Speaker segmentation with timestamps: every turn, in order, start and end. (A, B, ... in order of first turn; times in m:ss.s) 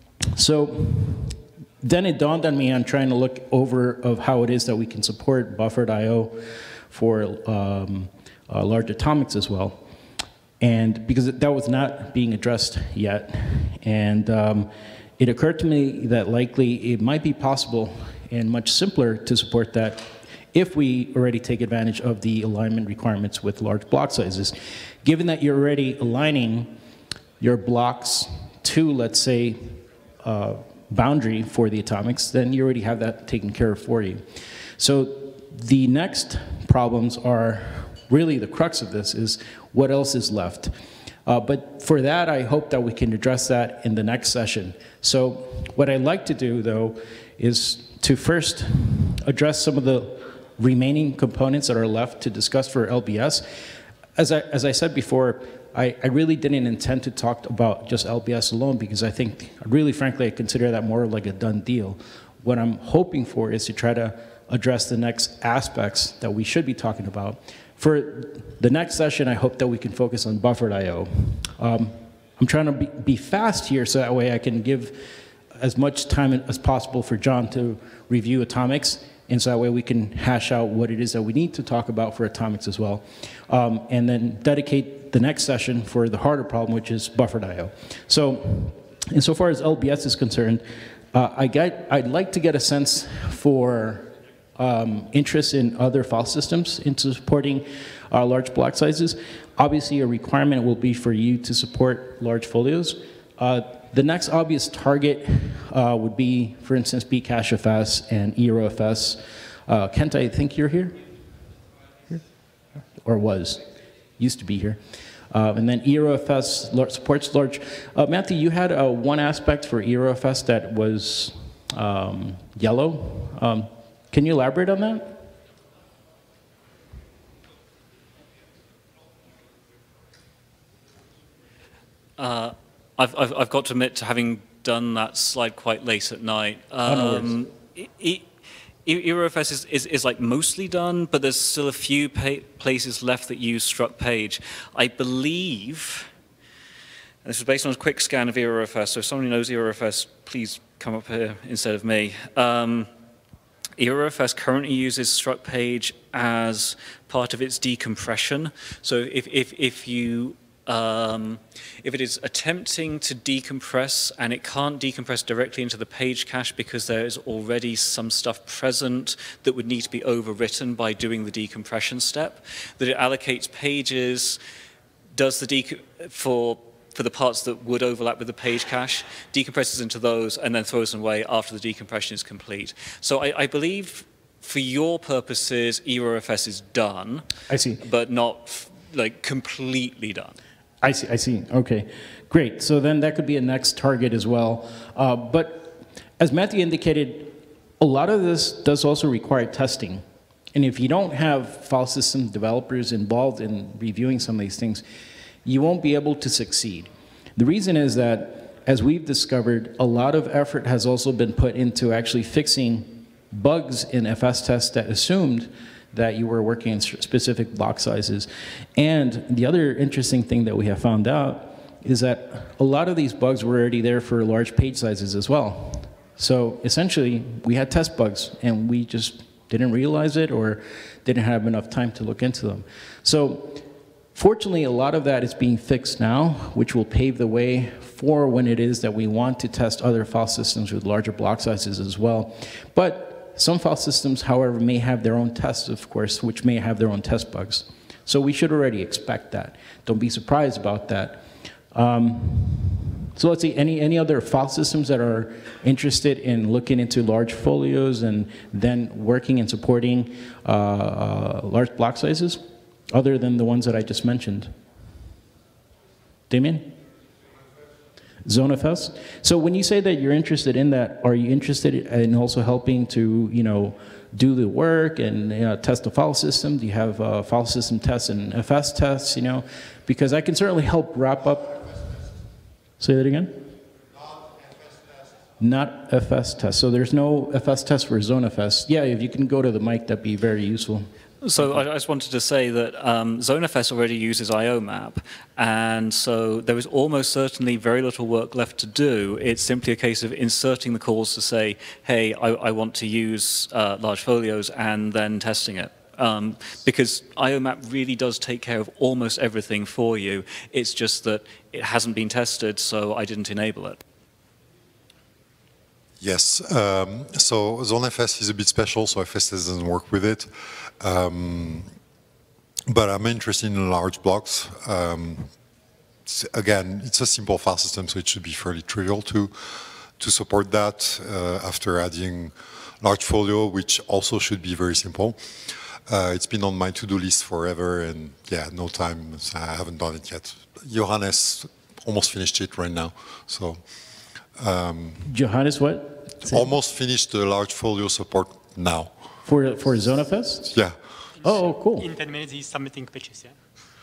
0:00.4-0:09.8 A
0:10.6-0:26.8 A
0:27.4-0:34.2 A
0:34.8-0:40.7 A
0:41.3-0:53.5 A
0:54.2-1:51.0 A
1:53.0-1:53.6 A
1:54.2-2:05.2 A
2:12.2-2:18.3 B
2:16.9-2:17.3 A
2:18.8-2:26.1 B
2:27.2-2:32.9 B
2:33.8-2:54.4 B
2:55.1-3:07.3 B
3:07.5-3:07.8 A
3:07.8-3:10.4 B
3:10.8-3:24.8 A
3:25.4-4:24.5 A
4:26.3-4:26.8 A
4:28.2-4:42.0 A
4:42.8-4:43.5 A
4:45.4-4:50.9 A
4:51.2-5:13.8 B
5:16.0-5:21.7 C
5:22.7-5:25.3 C
5:26.0-5:43.7 C
5:44.3-5:45.1 C
5:45.1-5:46.5 A
5:46.2-5:49.1 C
5:49.2-5:50.5 A
5:50.5-5:50.8 C
5:51.2-5:51.9 A
5:51.2-5:53.4 D